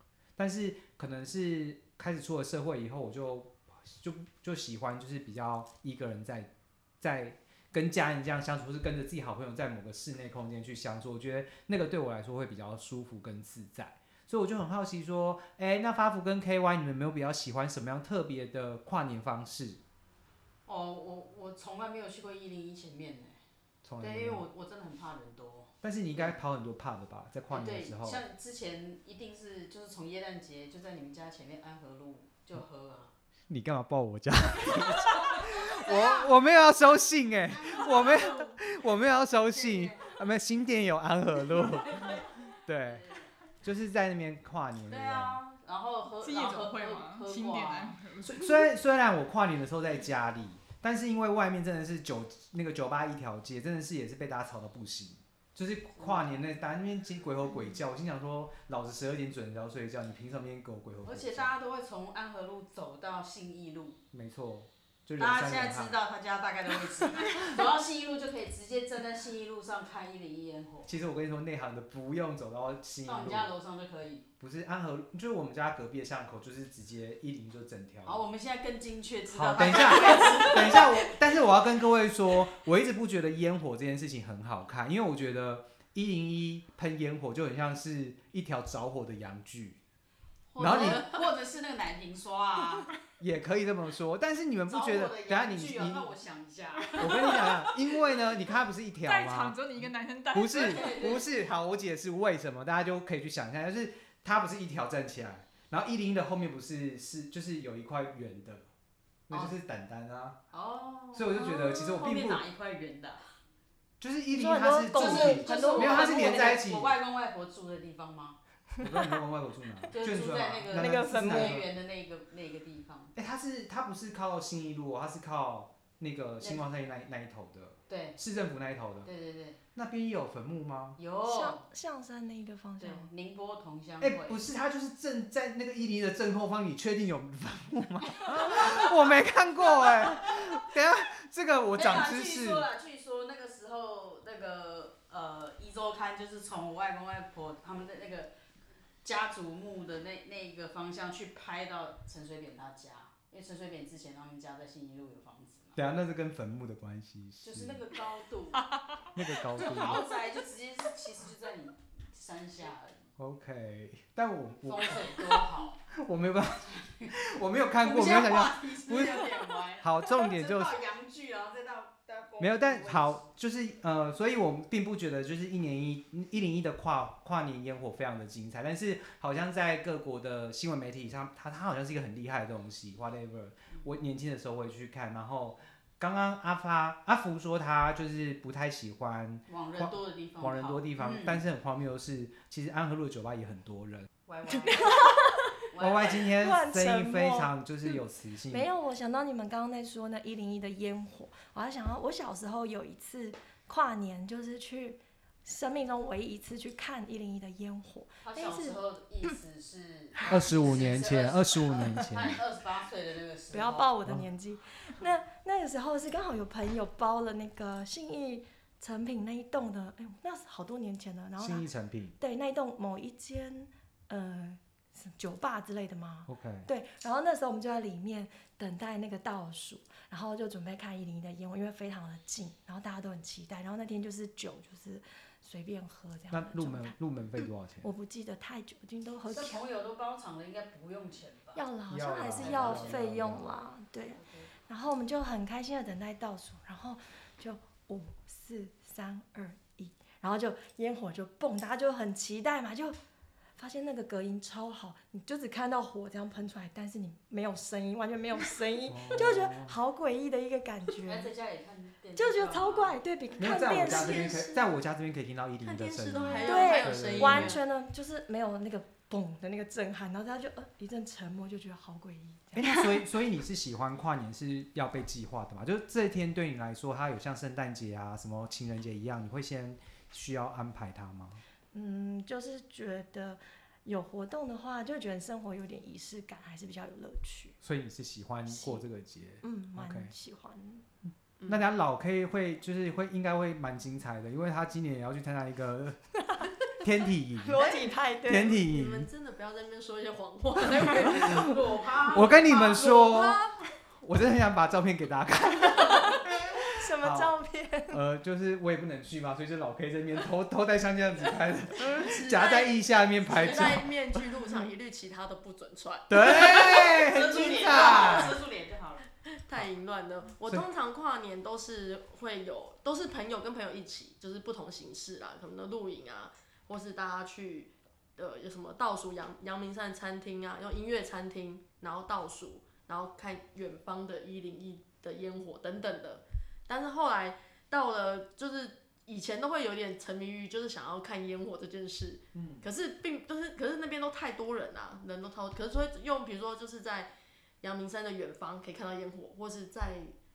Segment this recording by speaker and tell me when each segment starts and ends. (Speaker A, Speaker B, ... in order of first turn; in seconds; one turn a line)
Speaker A: 0.4-6.5
Speaker A: 7.0-19.8
Speaker B: 20.7-23.4
Speaker A: 23.8-24.4
Speaker B: 24.0-26.4
Speaker A: 25.8-28.2
Speaker B: 27.5-33.1
Speaker A: 33.5-43.1
Speaker B: 34.7-36.3
Speaker B: 37.5-38.6
Speaker B: 39.5-40.1
Speaker B: 41.9-42.3
Speaker B: 42.8-43.3
Speaker A: 43.6-45.4
Speaker B: 44.9-48.0
Speaker C: 46.2-48.6
Speaker A: 48.2-61.5
Speaker B: 56.0-56.3
Speaker B: 61.0-64.0
Speaker A: 64.1-66.0
Speaker B: 65.2-70.9
Speaker A: 70.9-73.5
Speaker B: 73.0-74.3
Speaker A: 74.4-78.2
Speaker B: 78.0-81.1
Speaker A: 79.3-89.8
Speaker B: 90.5-92.9
Speaker A: 90.6-91.1
Speaker A: 93.2-96.1
Speaker B: 94.7-97.4
Speaker A: 97.0-108.7
Speaker C: 97.0-97.8
Speaker C: 99.0-101.0
Speaker B: 100.5-101.3
Speaker A: 109.3-110.4
Speaker B: 110.5-113.3
Speaker A: 111.1-112.4
Speaker A: 114.0-117.0
Speaker D: 114.3-116.6
Speaker B: 114.9-118.4
Speaker A: 118.8-121.7
Speaker B: 119.9-123.1
Speaker D: 120.7-121.6
Speaker A: 123.2-129.1
Speaker B: 127.9-128.2
Speaker B: 129.1-129.6
Speaker A: 129.8-131.0
Speaker B: 131.0-131.7
Speaker D: 131.2-133.1
Speaker B: 132.8-134.4
Speaker A: 134.0-142.7
Speaker B: 138.3-138.9
Speaker B: 139.9-140.3
Speaker B: 141.7-148.3
Speaker B: 149.0-155.8
Speaker A: 155.8-157.8
Speaker B: 157.4-158.7
Speaker A: 159.2-160.1
Speaker B: 159.5-163.1
Speaker A: 163.2-170.8
Speaker B: 164.6-165.8
Speaker B: 166.6-167.2
Speaker B: 167.8-173.3
Speaker A: 172.4-194.1
Speaker B: 189.5-191.4
Speaker B: 194.3-195.1
Speaker D: 194.6-195.5
Speaker B: 195.7-196.3
Speaker A: 195.8-198.7
Speaker D: 196.2-208.8
Speaker B: 208.2-213.9
Speaker A: 210.3-212.4
Speaker D: 213.5-221.7
Speaker A: 221.4-222.2
Speaker D: 222.2-237.0
Speaker A: 226.3-226.7
Speaker A: 236.3-237.9
Speaker D: 237.8-239.7
Speaker B: 239.3-241.6
Speaker D: 241.6-253.0
Speaker A: 241.9-243.6
Speaker B: 242.4-243.4
Speaker B: 244.1-244.5
Speaker D: 253.6-261.3
Speaker A: 258.9-259.7
Speaker B: 261.0-263.0
Speaker D: 262.2-264.5
Speaker A: 263.4-267.6
Speaker E: 263.4-264.6
Speaker E: 265.6-267.6
Speaker D: 266.2-273.1
Speaker A: 272.6-281.4
Speaker D: 281.7-287.6
Speaker A: 287.6-290.1
Speaker D: 288.5-288.8
Speaker D: 289.4-290.8
Speaker A: 291.5-296.2
Speaker A: 296.7-297.7
Speaker D: 297.4-298.6
Speaker A: 298.2-299.1
Speaker E: 298.6-301.6
Speaker A: 300.8-301.4
Speaker B: 300.9-303.3
Speaker A: 302.1-303.4
Speaker E: 302.5-303.4
Speaker A: 304.0-307.3
Speaker D: 306.6-308.0
Speaker A: 307.9-314.2
Speaker E: 312.0-318.3
Speaker B: 313.3-313.7
Speaker A: 316.1-318.4
Speaker B: 316.2-319.1
Speaker E: 319.4-347.1
Speaker A: 342.3-342.7
Speaker E: 347.6-350.2